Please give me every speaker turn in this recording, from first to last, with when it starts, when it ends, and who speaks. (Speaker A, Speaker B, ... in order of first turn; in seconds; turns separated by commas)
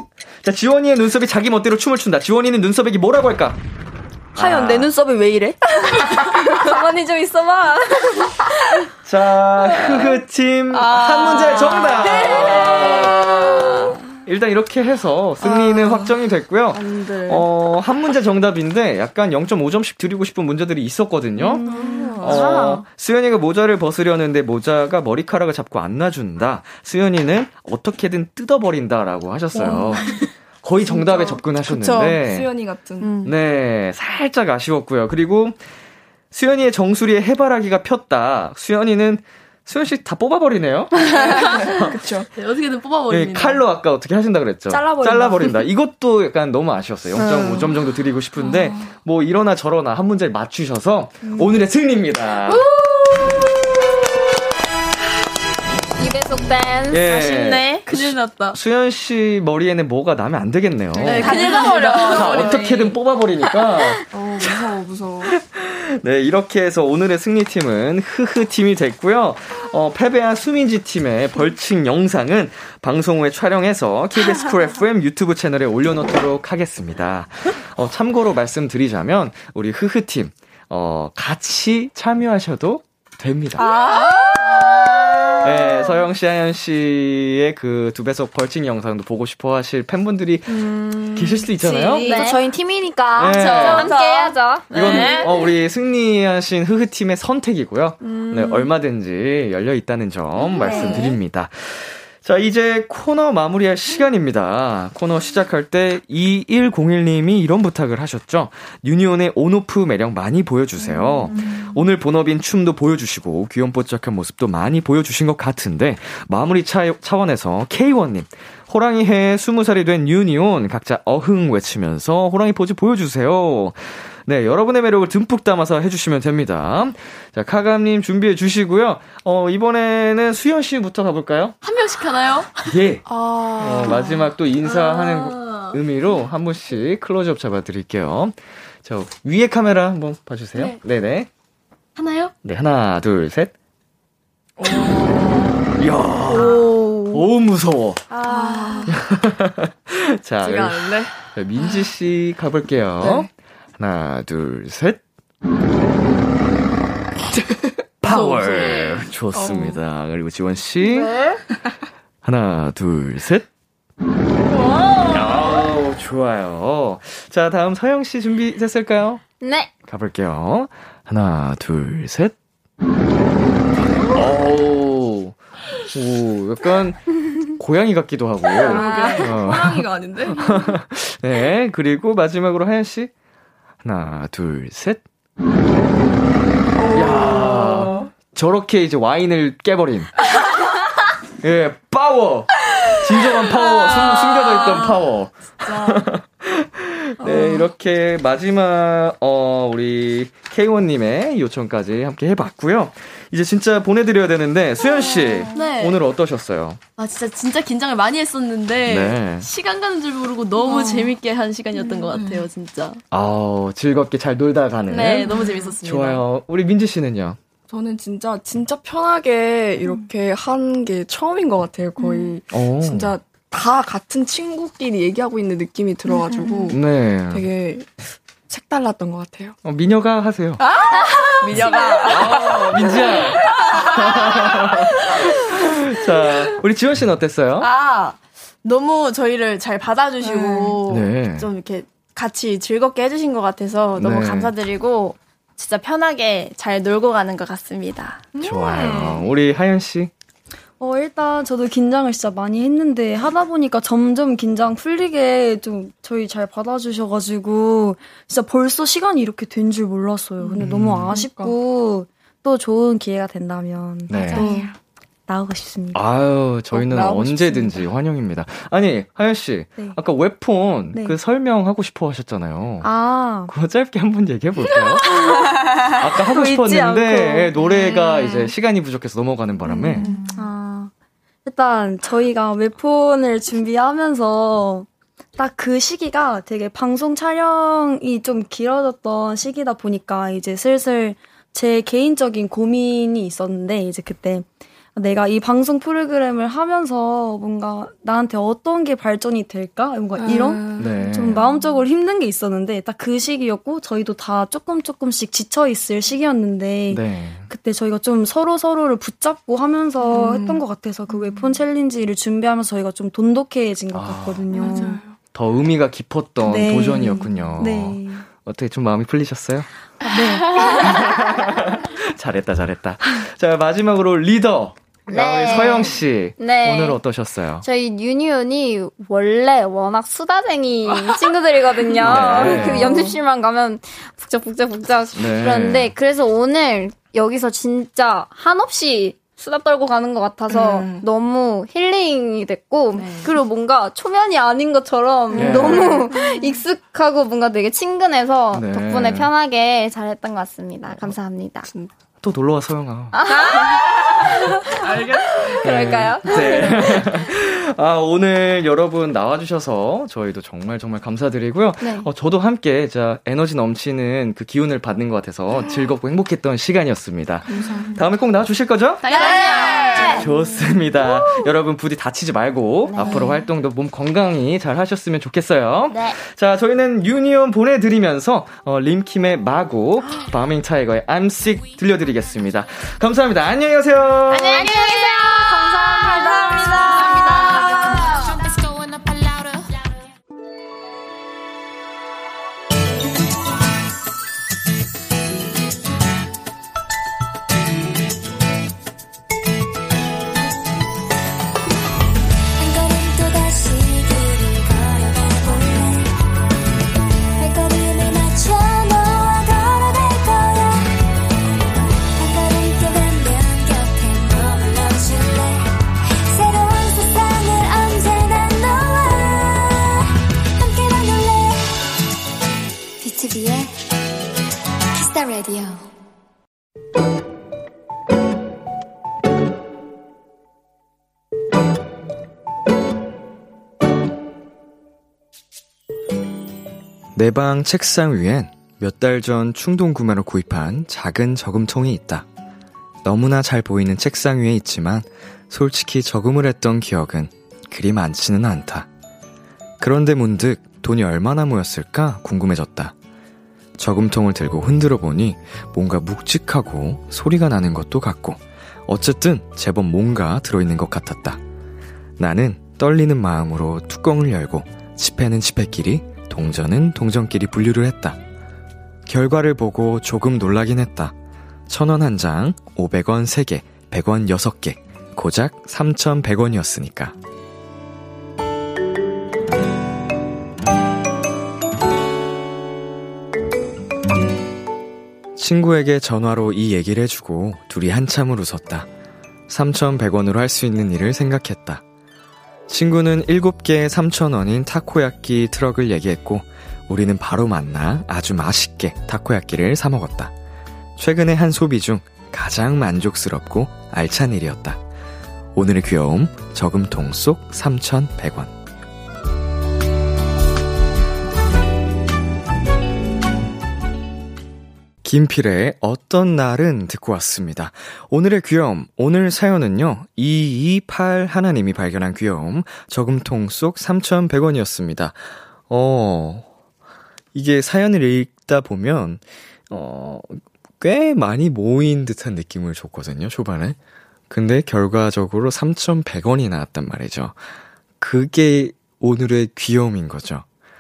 Speaker A: 0.4-3.6, Speaker A: 4.3-4.9, Speaker B: 4.4-7.8, Speaker A: 9.1-21.6, Speaker C: 10.7-13.8, Speaker D: 16.7-17.4, Speaker B: 21.4-22.8, Speaker D: 21.7-22.4, Speaker C: 21.7-22.5, Speaker A: 22.2-32.5, Speaker D: 30.9-33.1, Speaker B: 33.0-33.3, Speaker A: 33.2-35.6, Speaker A: 36.3-42.0, Speaker E: 41.3-41.7, Speaker D: 41.8-42.3, Speaker E: 42.4-43.6, Speaker A: 43.1-52.7, Speaker B: 44.7-45.6, Speaker D: 47.2-47.8, Speaker C: 52.5-53.4, Speaker F: 56.0-57.6, Speaker A: 56.9-83.7, Speaker C: 57.1-58.6, Speaker D: 61.0-61.6, Speaker E: 61.0-62.6, Speaker C: 61.1-62.9, Speaker D: 64.1-65.3, Speaker C: 83.6-84.7, Speaker F: 84.8-85.4, Speaker A: 85.4-92.1, Speaker B: 90.6-93.4, Speaker F: 92.0-92.4, Speaker A: 93.2-94.0, Speaker C: 93.3-95.4, Speaker E: 93.4-93.7, Speaker F: 93.6-94.7, Speaker A: 94.7-131.6, Speaker B: 98.0-98.7, Speaker B: 100.6-101.1, Speaker E: 131.6-132.7, Speaker A: 132.7-133.1, Speaker D: 133.1-134.2, Speaker A: 133.6-141.3, Speaker C: 133.6-133.9, Speaker E: 142.0-142.3, Speaker A: 142.4-143.5, Speaker D: 144.6-145.7, Speaker A: 145.8-148.2, Speaker C: 146.3-146.8, Speaker C: 148.2-148.9, Speaker D: 148.3-148.9, Speaker A: 148.9-155.0, Speaker C: 150.4-151.1, Speaker D: 153.0-153.3, Speaker A: 158.0-161.2, Speaker C: 158.1-158.9, Speaker D: 159.4-159.7, Speaker A: 162.2-163.5, Speaker C: 164.5-165.5, Speaker A: 165.1-169.2, Speaker F: 169.4-169.7, Speaker A: 169.9-172.3, Speaker A: 174.1-183.1, Speaker D: 178.5-180.8, Speaker C: 179.0-179.2, Speaker A: 183.8-185.0, Speaker D: 186.8-188.1, Speaker A: 186.9-190.2, Speaker A: 191.4-206.8, Speaker D: 197.3-197.6, Speaker E: 205.5-206.0, Speaker E: 207.0-213.0, Speaker A: 208.8-209.5, Speaker B: 210.7-211.1, Speaker A: 213.1-217.4, Speaker E: 214.9-216.2, Speaker D: 215.3-215.7, Speaker D: 217.7-227.9, Speaker A: 222.5-223.2, Speaker A: 226.7-227.5, Speaker D: 228.5-229.6, Speaker A: 229.6-230.6, Speaker D: 230.7-233.3, Speaker C: 230.7-235.4, Speaker A: 231.6-237.7, Speaker C: 237.6-248.3, Speaker D: 240.2-240.8, Speaker A: 240.9-241.5, Speaker A: 244.0-244.5, Speaker A: 248.4-250.1, Speaker B: 250.8-264.7, Speaker D: 260.5-261.5, Speaker A: 260.6-261.2, Speaker A: 264.1-264.5, Speaker D: 264.4-264.7, Speaker C: 264.4-264.7, Speaker B: 265.3-266.1, Speaker A: 265.9-272.9, Speaker D: 266.7-267.3, Speaker B: 267.0-267.5, Speaker B: 272.8-273.5, Speaker A: 273.5-280.1, Speaker B: 275.7-277.6, Speaker D: 279.8-280.2, Speaker B: 280.0-280.9, Speaker B: 281.4-315.0, Speaker D: 300.2-301.0, Speaker A: 300.8-301.5, Speaker A: 306.9-307.5, Speaker D: 310.1-310.6, Speaker A: 313.9-314.4, Speaker D: 314.6-315.2, Speaker A: 315.3-319.7, Speaker B: 316.4-318.3, Speaker B: 320.0-321.1, Speaker A: 320.6-327.6, Speaker F: 325.1-327.0, Speaker F: 327.6-351.7, Speaker A: 332.0-332.9, Speaker D: 332.1-333.2, Speaker A: 335.1-335.9, Speaker D: 340.5-341.0, Speaker E: 343.0-343.3, Speaker A: 345.3-346.0, Speaker D: 345.4-346.1, Speaker A: 348.5-349.3, Speaker A: 352.2-353.2, Speaker F: 353.1-354.7, Speaker D: 354.9-355.3, Speaker A: 355.6-369.1, Speaker F: 355.6-356.8, Speaker F: 361.8-362.1, Speaker D: 367.5-368.0, Speaker E: 369.0-370.2, Speaker F: 369.1-370.2, Speaker C: 369.1-370.2, Speaker A: 370.1-384.7, Speaker F: 372.9-373.3, Speaker D: 373.0-373.3, Speaker F: 384.4-388.2, Speaker C: 384.4-385.3, Speaker B: 385.4-388.1, Speaker C: 386.1-388.2, Speaker G: 402.6-406.1, Speaker G: 407.4-410.9, Speaker G: 412.0-415.7, Speaker G: 416.3-420.0, Speaker G: 420.6-421.8, Speaker G: 423.0-423.8, Speaker G: 424.9-425.9, Speaker A: 437.1-442.3, Speaker A: 443.0-448.9, Speaker A: 449.8-452.9, Speaker A: 453.8-461.4, Speaker A: 462.2-468.2, Speaker A: 469.1-471.1, Speaker A: 471.7-477.1, Speaker A: 485.4-488.9, Speaker A: 489.5-491.8, Speaker A: 492.7-500.3, Speaker A: 501.0-504.8, Speaker A: 505.6-508.5, Speaker A: 515.0-526.5, Speaker A: 527.3-533.8, Speaker A: 534.3-537.4, Speaker A: 538.0-540.5